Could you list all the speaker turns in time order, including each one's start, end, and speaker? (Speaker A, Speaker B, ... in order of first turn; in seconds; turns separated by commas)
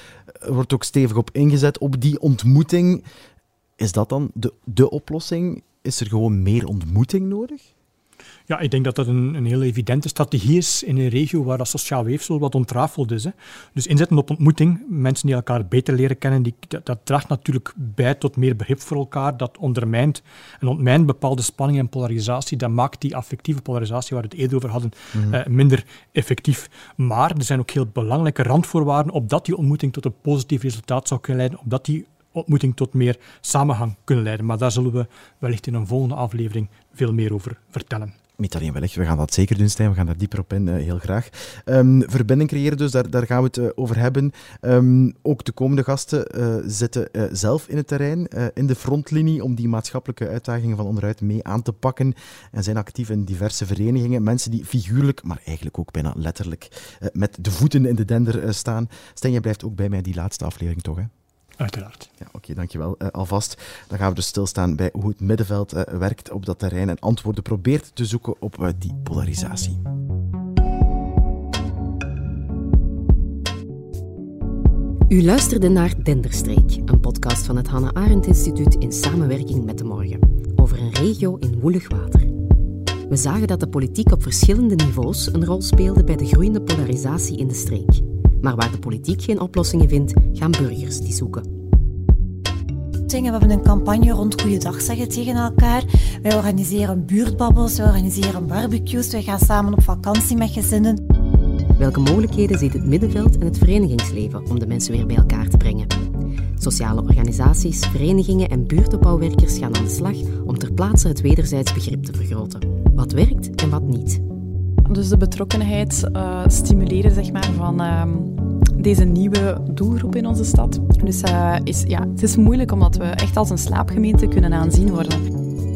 Speaker A: 0.3-3.0, Speaker A: 3.8-7.7, Speaker B: 8.5-38.1, Speaker A: 38.4-61.1, Speaker B: 61.6-62.1, Speaker A: 62.2-69.8, Speaker C: 75.1-82.3, Speaker C: 83.1-91.5, Speaker D: 93.1-101.0, Speaker C: 101.8-106.0, Speaker C: 106.6-114.2, Speaker E: 114.9-125.3